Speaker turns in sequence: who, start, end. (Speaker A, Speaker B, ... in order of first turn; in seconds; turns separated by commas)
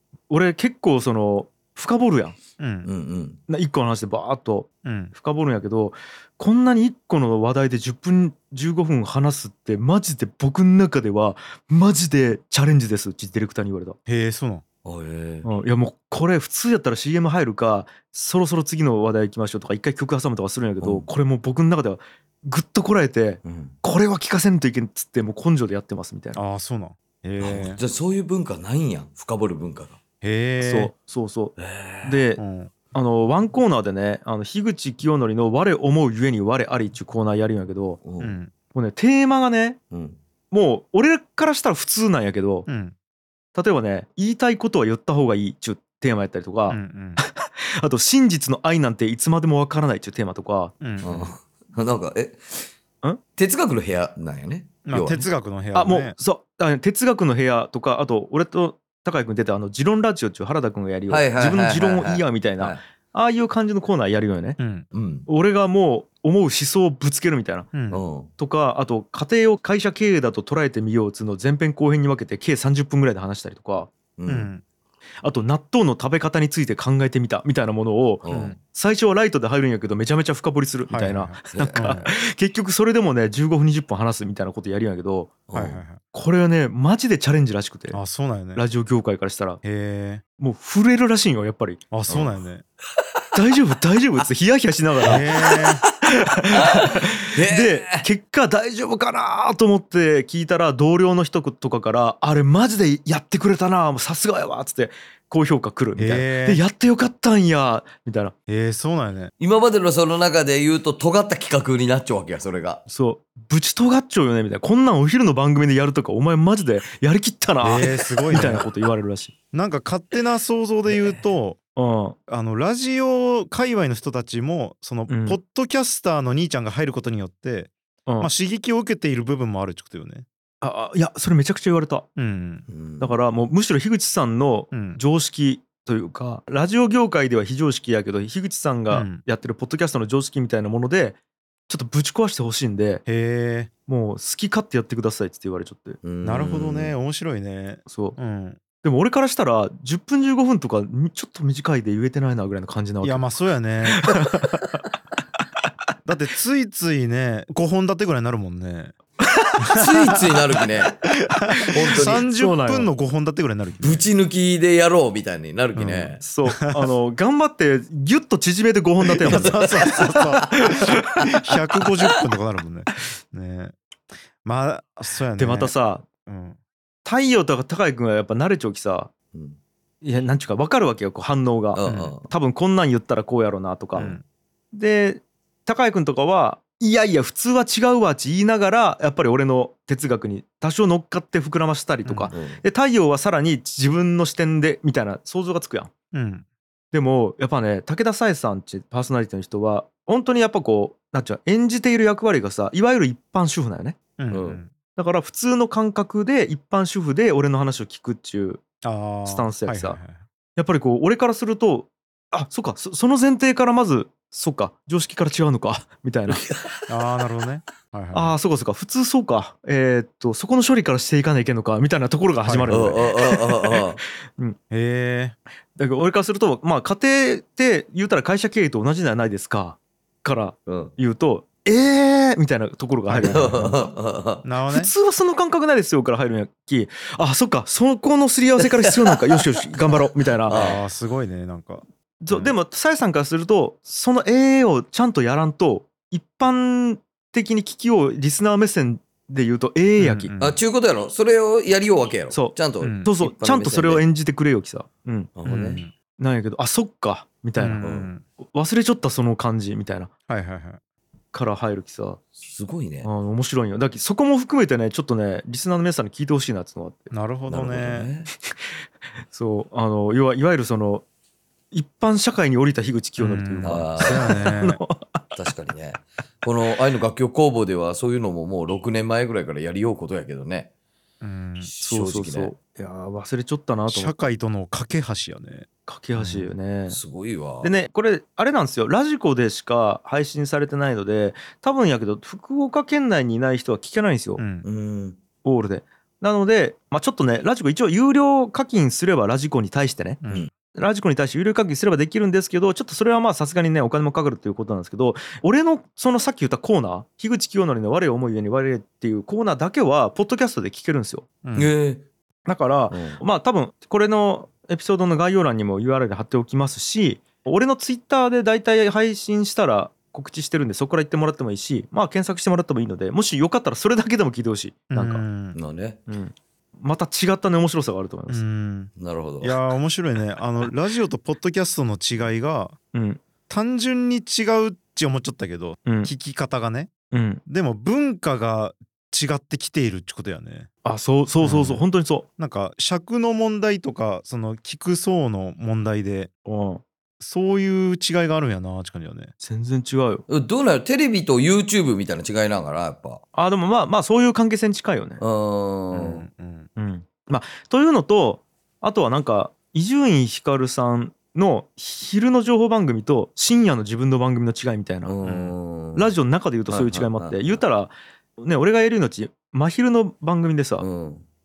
Speaker A: 0.3-2.4, Speaker B: 2.6-2.9, Speaker C: 2.9-3.4, Speaker A: 3.5-14.0, Speaker B: 4.8-5.1, Speaker B: 14.1-14.6, Speaker C: 14.8-15.5, Speaker A: 15.4-26.4, Speaker C: 20.8-21.1, Speaker C: 23.4-23.8, Speaker B: 26.4-27.8, Speaker C: 27.4-30.0, Speaker B: 30.2-30.9, Speaker A: 30.6-38.0, Speaker C: 31.6-32.2, Speaker B: 32.4-32.7, Speaker C: 38.0-38.4, Speaker B: 38.2-38.5, Speaker A: 38.7-39.8, Speaker C: 39.9-40.2, Speaker A: 40.5-42.7, Speaker B: 42.7-43.0, Speaker A: 43.5-50.7, Speaker B: 46.7-47.2, Speaker B: 50.8-51.3, Speaker C: 51.0-52.6, Speaker C: 53.4-55.3, Speaker B: 54.9-56.1, Speaker A: 55.7-64.6, Speaker C: 61.1-62.8, Speaker B: 64.6-64.9, Speaker C: 64.9-65.3, Speaker A: 65.3-67.7, Speaker B: 67.7-68.0, Speaker C: 67.9-68.3, Speaker A: 68.4-73.9, Speaker C: 74.2-74.5, Speaker B: 74.3-74.6, Speaker A: 75.2-85.4, Speaker C: 78.2-78.5, Speaker B: 78.3-78.6, Speaker B: 80.9-82.1, Speaker C: 81.5-82.0, Speaker C: 85.5-85.8, Speaker B: 85.5-86.0, Speaker A: 86.1-88.0, Speaker B: 87.9-88.6, Speaker A: 88.5-89.6, Speaker B: 89.6-90.2, Speaker A: 90.4-91.8, Speaker B: 91.9-92.6, Speaker C: 92.1-92.4, Speaker A: 93.3-95.3, Speaker B: 95.0-95.8, Speaker C: 95.4-95.7, Speaker A: 96.1-108.3, Speaker C: 96.6-98.0, Speaker B: 106.0-106.6, Speaker B: 108.5-109.3, Speaker C: 109.4-112.8, Speaker A: 112.9-119.3, Speaker B: 117.6-118.7, Speaker B: 119.5-121.6, Speaker A: 121.8-122.2, Speaker B: 122.3-130.2, Speaker A: 125.1-125.4, Speaker A: 128.1-128.3, Speaker A: 130.6-132.1, Speaker B: 132.2-132.7, Speaker C: 132.7-133.2, Speaker A: 133.0-141.2, Speaker B: 134.7-135.0, Speaker B: 138.9-139.2, Speaker A: 141.7-143.0, Speaker B: 143.1-143.7, Speaker A: 143.9-146.0, Speaker C: 146.0-146.9, Speaker B: 146.2-148.6, Speaker A: 147.9-148.2, Speaker A: 148.8-153.3, Speaker B: 153.0-154.1, Speaker A: 153.9-154.8, Speaker B: 156.0-158.9, Speaker A: 159.2-159.7, Speaker B: 159.6-160.4, Speaker C: 159.8-160.9, Speaker B: 161.0-164.1, Speaker A: 161.5-162.9, Speaker C: 161.7-162.2, Speaker C: 163.8-166.2, Speaker B: 165.8-166.9, Speaker A: 166.2-169.7, Speaker B: 169.2-173.8, Speaker C: 169.3-170.7, Speaker A: 170.6-170.9, Speaker B: 174.4-175.7, Speaker A: 175.4-176.0, Speaker B: 176.2-176.6, Speaker A: 177.0-179.1, Speaker C: 179.3-179.6, Speaker A: 180.0-184.1, Speaker C: 181.7-182.3, Speaker B: 181.8-182.2, Speaker B: 184.0-184.2, Speaker A: 184.7-195.9, Speaker B: 192.0-192.3, Speaker C: 192.3-192.6, Speaker B: 196.1-196.5, Speaker A: 196.9-204.0, Speaker B: 204.2-204.7, Speaker C: 204.3-204.6, Speaker A: 205.0-208.6, Speaker B: 208.8-210.2, Speaker A: 209.2-210.0, Speaker A: 210.6-216.4, Speaker C: 216.3-216.7, Speaker B: 216.9-218.4, Speaker A: 218.1-223.8, Speaker B: 222.4-222.9, Speaker C: 222.7-224.0, Speaker B: 224.7-225.4, Speaker A: 225.8-233.8, Speaker C: 230.7-230.9, Speaker B: 233.1-233.8, Speaker C: 233.3-234.4, Speaker B: 234.4-234.9, Speaker A: 234.7-240.8, Speaker C: 240.4-240.8, Speaker B: 240.5-242.5, Speaker A: 242.2-250.3, Speaker B: 250.0-250.6, Speaker C: 250.4-254.0, Speaker A: 252.3-255.4, Speaker B: 252.8-253.1, Speaker C: 255.4-255.8, Speaker B: 255.5-255.9, Speaker A: 256.2-257.9, Speaker B: 257.6-258.2, Speaker C: 257.8-258.1, Speaker A: 258.4-260.1, Speaker B: 260.3-260.8, Speaker A: 261.3-262.2, Speaker C: 262.4-263.1, Speaker A: 263.0-267.1, Speaker B: 267.1-268.1, Speaker C: 267.5-268.3, Speaker A: 269.3-271.0, Speaker A: 271.7-275.3, Speaker B: 273.2-274.8, Speaker C: 273.6-274.4, Speaker C: 275.4-280.7, Speaker B: 281.2-281.7, Speaker C: 281.6-282.5, Speaker A: 281.8-284.1, Speaker B: 283.9-286.5, Speaker A: 285.9-287.0, Speaker C: 286.9-287.7, Speaker A: 287.6-294.4, Speaker B: 294.4-294.6, Speaker C: 294.6-295.2, Speaker A: 295.4-300.2, Speaker B: 300.2-300.5, Speaker A: 300.7-311.2, Speaker B: 311.4-311.7, Speaker C: 311.5-312.0, Speaker A: 312.5-325.2, Speaker C: 312.9-313.2, Speaker B: 324.9-325.6, Speaker C: 325.5-326.0, Speaker A: 326.1-328.4, Speaker B: 328.3-332.8, Speaker C: 329.0-329.6, Speaker A: 332.9-333.2, Speaker B: 333.5-336.9, Speaker A: 335.9-336.1, Speaker A: 337.1-337.4, Speaker B: 337.5-340.7, Speaker A: 340.8-342.2, Speaker B: 341.4-341.8, Speaker B: 342.4-346.3, Speaker A: 346.4-346.8, Speaker B: 347.2-349.3, Speaker A: 349.4-350.2, Speaker C: 350.3-353.2, Speaker A: 353.3-355.2, Speaker C: 355.2-356.2, Speaker B: 355.9-356.7, Speaker A: 356.8-365.1, Speaker C: 365.0-366.1, Speaker B: 365.2-365.5, Speaker A: 365.9-370.9, Speaker C: 366.7-367.6, Speaker C: 370.8-371.3